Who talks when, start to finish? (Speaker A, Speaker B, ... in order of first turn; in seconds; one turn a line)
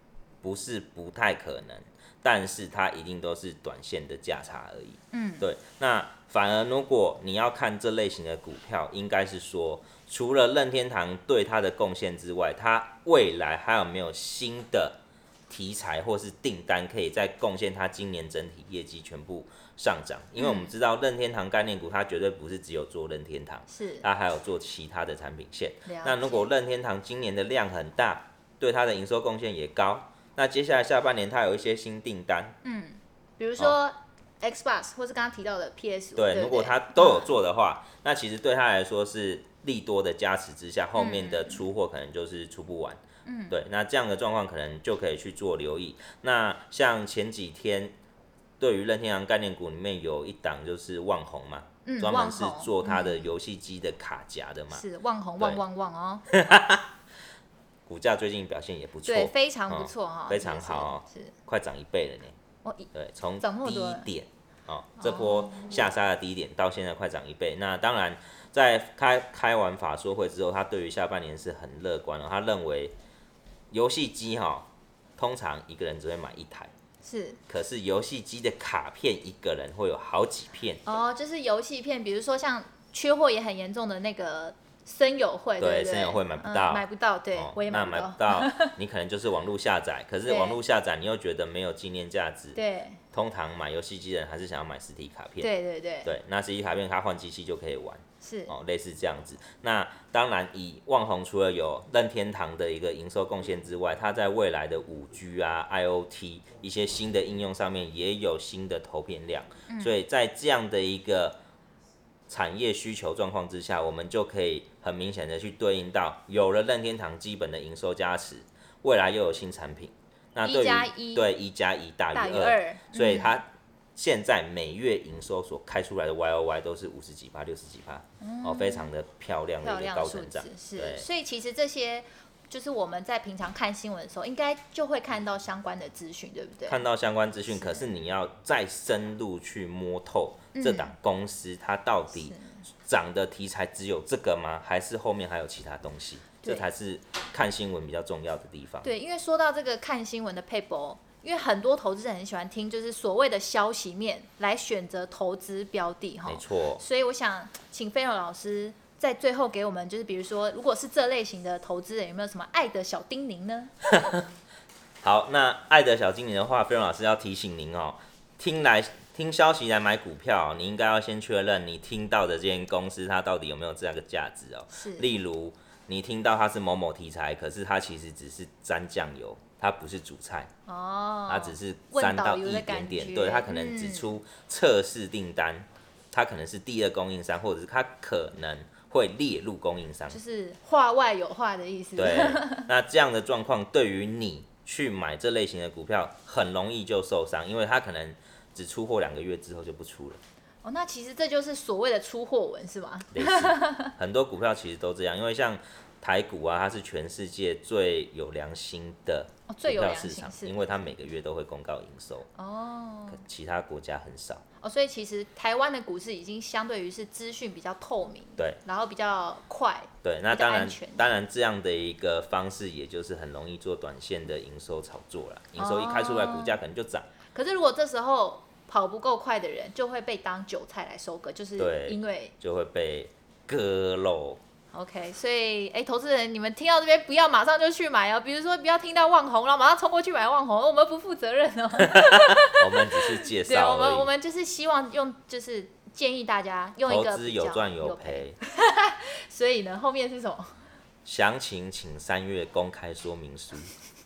Speaker A: 0.4-32.5
Speaker B: 5.1-5.5
Speaker B: 20.4-20.7
Speaker B: 23.7-24.1
Speaker B: 25.9-26.5
Speaker B: 32.6-37.3
Speaker A: 36.1-47.9
Speaker B: 41.0-41.6
Speaker B: 43.2-43.5
Speaker A: 48.6-54.8
Speaker B: 51.8-53.3
Speaker B: 54.7-56.2
Speaker A: 56.3-56.9
Speaker A: 57.9-62.3
Speaker B: 59.0-61.3
Speaker B: 62.6-64.1
Speaker A: 62.9-72.9
Speaker B: 65.0-65.9
Speaker A: 73.7-76.7
Speaker B: 77.0-77.4
Speaker A: 77.5-80.8
Speaker B: 80.8-88.7
Speaker A: 85.6-92.6
Speaker B: 90.2-90.6
Speaker B: 92.5-93.0
Speaker A: 93.1-95.5
Speaker B: 95.4-96.1
Speaker A: 96.0-111.4
Speaker B: 98.2-98.5
Speaker B: 109.7-110.0
Speaker A: 112.3-131.1
Speaker B: 120.4-121.3
Speaker B: 122.1-123.4
Speaker B: 128.2-128.9
Speaker B: 129.6-136.8
Speaker A: 136.7-148.9
Speaker B: 137.5-137.9
Speaker B: 140.5-140.9
Speaker B: 142.1-142.6
Speaker B: 148.8-163.7
Speaker A: 156.3-156.8
Speaker A: 165.0-180.5
Speaker B: 174.7-175.1
Speaker B: 180.7-184.2
Speaker A: 181.3-190.2
Speaker B: 190.1-192.7
Speaker A: 192.0-200.2
Speaker B: 200.6-203.9
Speaker A: 203.1-212.3
Speaker B: 209.5-210.8
Speaker B: 212.3-213.2
Speaker A: 213.1-214.4
Speaker B: 214.6-221.1
Speaker A: 220.0-227.1
Speaker B: 225.6-226.6
Speaker B: 227.3-232.3
Speaker A: 231.6-234.4
Speaker B: 234.7-250.6
Speaker A: 241.9-244.1
Speaker A: 246.9-248.4
Speaker A: 251.0-253.7